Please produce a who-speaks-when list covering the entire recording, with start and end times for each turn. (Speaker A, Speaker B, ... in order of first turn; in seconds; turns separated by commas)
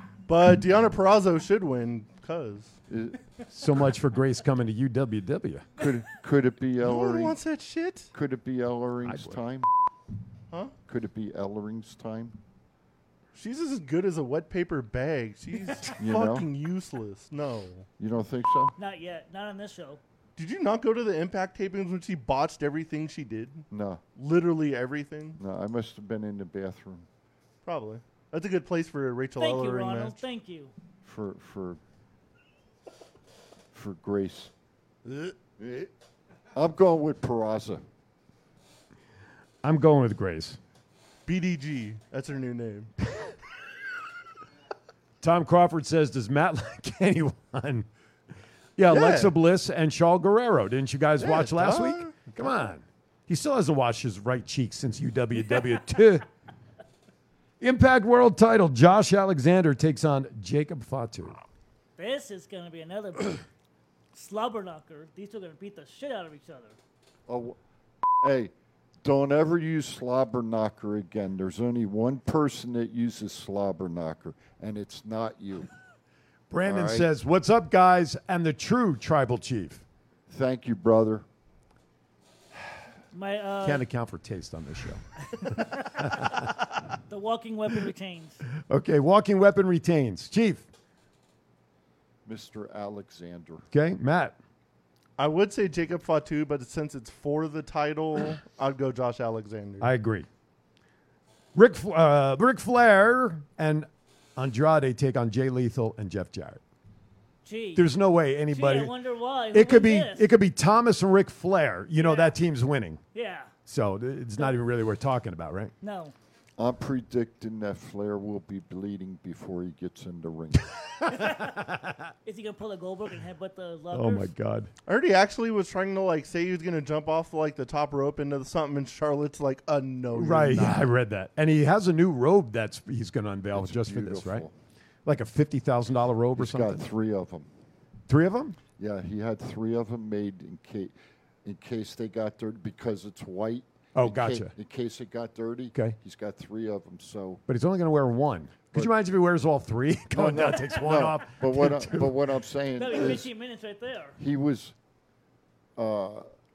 Speaker A: 0.3-2.8, Speaker B: 2.9-3.2, Speaker C: 3.5-5.8, Speaker B: 5.8-7.4, Speaker A: 6.8-8.1, Speaker B: 8.1-9.7, Speaker C: 9.0-9.4, Speaker B: 10.9-12.4, Speaker A: 13.3-17.9, Speaker B: 16.0-16.5, Speaker B: 18.0-18.7, Speaker D: 18.8-20.0, Speaker A: 20.4-23.7, Speaker B: 23.7-24.0, Speaker A: 24.2-25.4, Speaker B: 25.4-27.1, Speaker A: 27.6-30.2, Speaker D: 29.4-30.7, Speaker B: 31.0-31.8, Speaker B: 33.7-34.5, Speaker A: 35.1-35.3, Speaker B: 35.6-35.9, Speaker B: 36.5-37.8, Speaker C: 39.6-40.6, Speaker A: 41.3-42.9, Speaker C: 45.2-47.9, Speaker C: 48.8-56.2, Speaker A: 48.9-49.3, Speaker A: 51.2-52.3, Speaker C: 57.6-61.4, Speaker D: 62.0-63.4, Speaker D: 64.1-66.8, Speaker B: 67.3-67.6, Speaker B: 68.2-68.5, Speaker B: 69.0-75.7, Speaker C: 76.5-79.8, Speaker B: 76.6-77.1, Speaker B: 80.3-81.3, Speaker D: 83.1-83.8, Speaker C: 83.6-86.5, Speaker D: 85.6-86.1, Speaker D: 87.1-88.4, Speaker C: 88.7-90.7, Speaker B: 92.3-93.7, Speaker C: 93.7-94.4, Speaker A: 95.2-99.9, Speaker C: 99.8-100.3, Speaker C: 101.5-106.6, Speaker D: 107.5-107.8, Speaker C: 107.8-108.9, Speaker D: 108.5-110.3, Speaker C: 109.5-113.0, Speaker D: 112.0-112.3, Speaker D: 113.1-113.5, Speaker C: 113.7-115.7, Speaker D: 115.8-116.1, Speaker B: 116.6-120.7, Speaker C: 121.1-122.0, Speaker D: 121.2-121.5, Speaker D: 122.2-124.3, Speaker C: 123.9-124.7, Speaker A: 124.9-130.9, Speaker C: 130.1-134.5, Speaker B: 133.5-134.5, Speaker C: 135.1-136.8, Speaker B: 136.4-137.5, Speaker C: 138.1-138.6, Speaker B: 138.8-140.9, Speaker B: 141.4-147.4, Speaker C: 143.9-144.5, Speaker C: 147.5-152.2, Speaker B: 150.1-153.3, Speaker D: 152.8-154.2, Speaker B: 154.2-154.7, Speaker B: 155.8-156.3